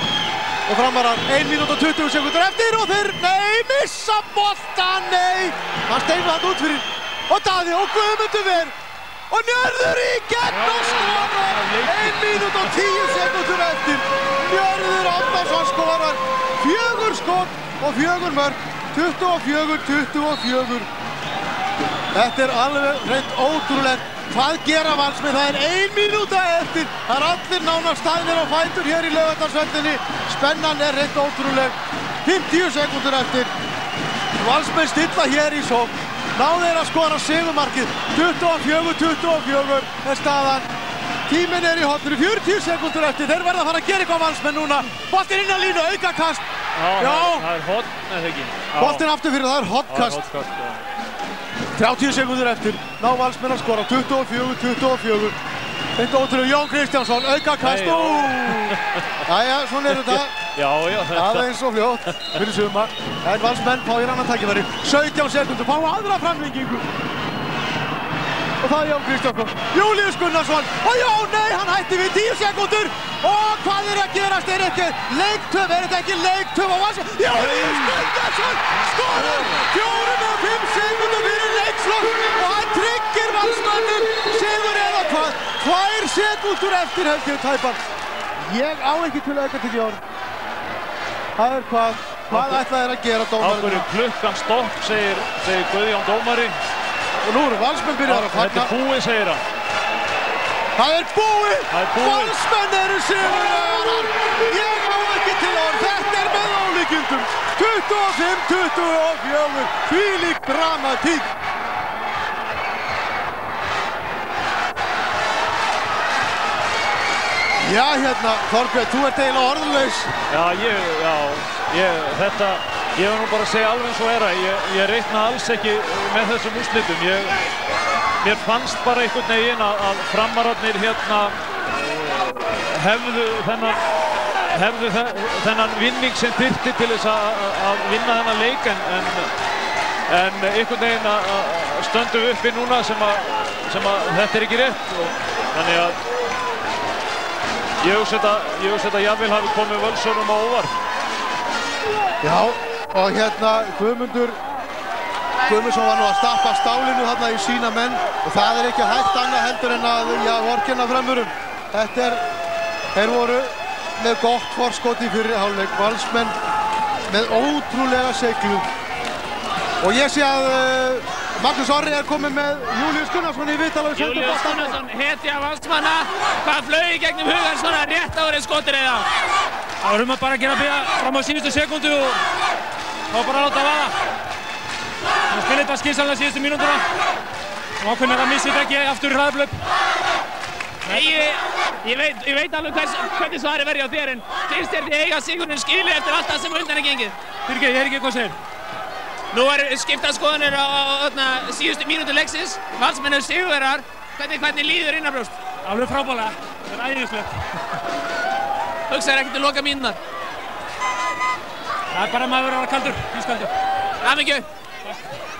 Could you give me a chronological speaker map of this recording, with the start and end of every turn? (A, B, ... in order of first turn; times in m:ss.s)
0:00.7-0:08.7 A
0:09.3-0:20.9 A
0:10.4-0:12.7 B
0:22.1-0:33.5 A
0:34.4-0:40.7 A
0:41.3-0:46.4 A
0:46.8-0:49.1 B
0:47.0-0:47.4 A
0:48.8-0:50.2 A
0:49.9-0:50.8 B
0:51.8-0:55.4 A
0:56.0-1:00.3 A
0:57.6-0:59.1 B
0:59.9-1:01.5 B
1:01.1-1:06.8 A
1:08.6-1:27.8 A
1:17.3-1:18.1 B
1:19.1-1:19.6 B
1:28.4-1:30.0 A
1:31.4-1:33.9 A
1:32.3-1:32.6 B
1:33.4-1:36.6 B
1:37.2-1:38.7 A
1:38.0-1:39.4 B
1:40.8-1:51.3 A
1:41.7-1:42.4 B
1:57.6-2:00.1 A
2:00.3-2:07.4 B
2:08.2-2:13.8 B
2:14.5-2:19.3 B
2:20.1-2:26.0 B
2:27.8-2:30.7 B
2:32.2-2:34.4 A
2:35.4-2:42.2 A
2:42.9-2:46.4 A
2:47.1-2:48.7 A
2:49.8-2:54.8 A
2:54.0-2:59.1 C
2:59.8-3:02.2 D
3:03.1-3:03.9 D
3:05.3-3:06.8 D
3:07.8-3:09.6 D
3:10.9-3:11.2 D
3:10.9-3:17.1 C
3:17.5-3:18.3 D
3:19.3-3:25.3 C
3:25.6-3:27.4 D
3:28.9-3:30.0 C
3:31.9-3:33.5 D
3:34.0-3:34.4 C